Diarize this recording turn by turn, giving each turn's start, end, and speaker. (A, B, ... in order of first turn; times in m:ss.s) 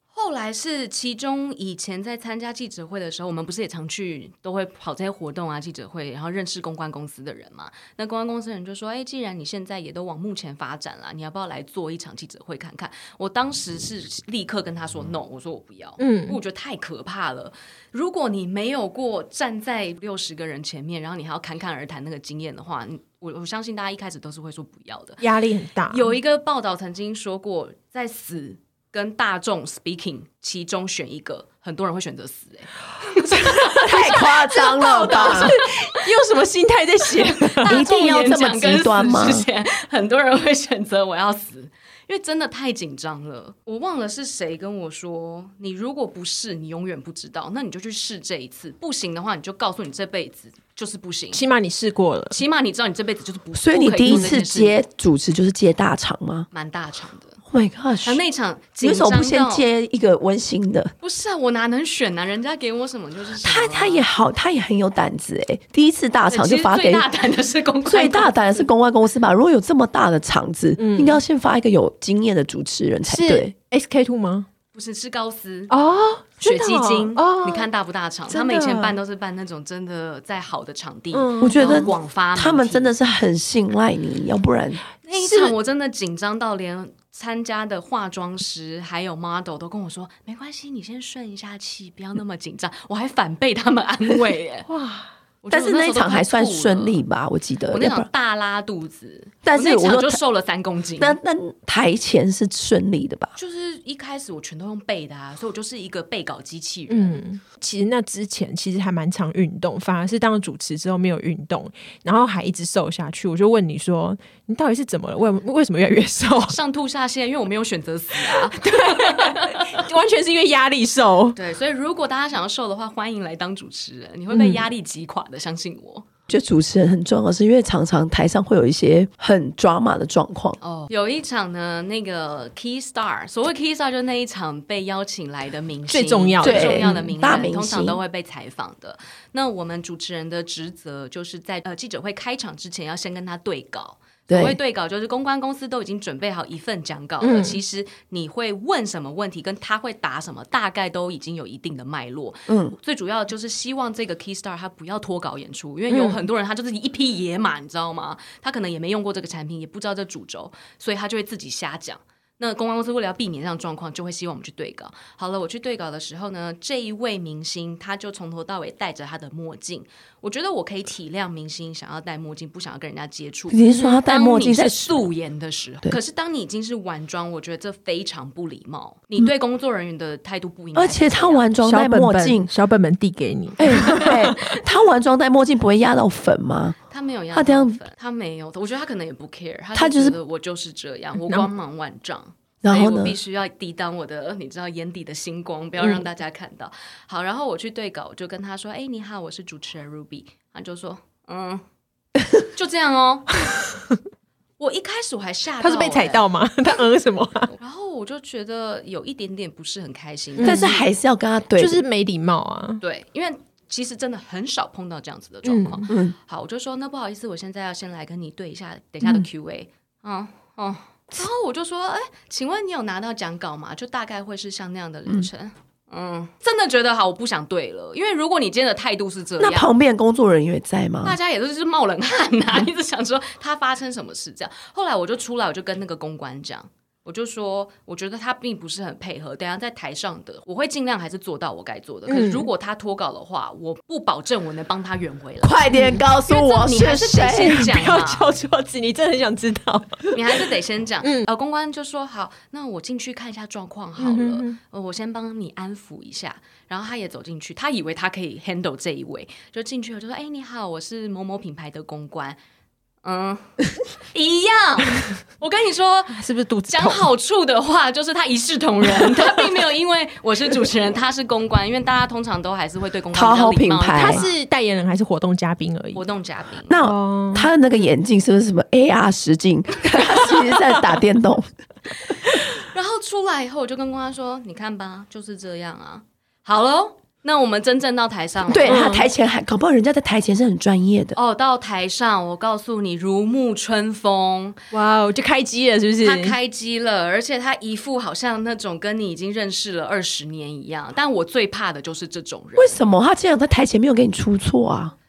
0:00.1-0:25.2 A
0:16.0-0:16.4 B
0:25.2-0:26.1 B
0:25.9-0:36.0 A
0:33.3-0:37.8 B
0:33.8-0:35.6 C
0:37.1-0:51.4 A
0:37.6-0:39.5 C
0:51.3-0:52.4 B
0:52.3-0:54.8 A
0:53.6-0:56.5 C
0:54.1-0:54.4 B
0:56.5-0:57.4 A
0:57.5-0:58.2 C
0:58.0-0:59.6 A
0:58.8-1:00.9 C
1:01.0-1:04.1 A
1:03.4-1:07.0 C
1:06.3-1:08.6 A
1:07.8-1:13.5 C
1:10.8-1:11.2 B
1:13.1-1:14.5 B
1:14.7-1:15.7 A
1:15.7-1:17.7 B
1:16.4-1:22.9 A
1:18.3-1:18.8 B
1:18.5-1:18.8 C
1:21.1-1:21.9 B
1:21.4-1:24.8 C
1:25.1-1:34.7 A
1:25.2-1:25.5 B
1:34.7-1:35.1 B
1:35.4-1:37.0 A
1:35.5-1:38.1 C
1:37.7-1:41.2 A
1:39.4-1:40.2 C
1:41.0-1:43.3 C
1:43.4-1:47.2 A
1:46.9-1:56.6 B
1:56.5-1:59.9 A
1:58.2-2:01.4 B
2:01.4-2:06.1 A
2:04.3-2:04.6 B
2:06.3-2:10.6 C
2:10.6-3:01.5 A
2:15.9-2:17.0 B
2:16.4-2:18.0 C
2:24.3-2:24.6 C
2:27.2-2:27.6 B
2:32.5-2:32.8 C
2:35.9-2:36.2 B
2:53.5-2:55.1 C
3:00.8-3:02.5 C
3:01.6-3:04.6 B
3:03.6-3:06.8 C
3:03.7-3:04.6 A
3:06.9-3:21.6 A
3:07.3-3:07.8 C
3:09.8-3:10.2 C
3:12.6-3:13.2 C
3:22.5-3:23.4 A
3:24.6-3:26.2 A
3:25.6-3:27.5 B
3:27.6-3:30.8 A
3:30.4-3:30.8 B
3:30.4-3:31.8 C
3:31.6-3:32.8 B
3:32.8-3:49.7 A
3:35.4-3:35.9 B
3:49.4-3:51.2 C
3:51.0-4:05.6 A
4:02.1-4:02.5 B
4:05.4-4:07.7 C
4:05.7-4:06.0 B
4:06.3-4:08.3 A
4:07.5-4:10.4 B
4:10.1-4:22.4 A
4:11.0-4:11.3 B
4:14.0-4:14.6 B
4:23.0-4:34.3 A
4:26.1-4:27.1 B
4:33.1-4:34.2 C
4:33.9-4:36.0 B
4:35.9-4:36.7 A
4:36.7-4:41.5 C
4:36.8-4:37.5 B
4:42.1-4:48.9 A
4:48.5-4:51.2 C
4:48.7-4:49.1 B
4:51.2-4:54.6 A
4:54.7-4:56.4 B
4:56.0-5:02.8 A
5:02.6-5:05.0 C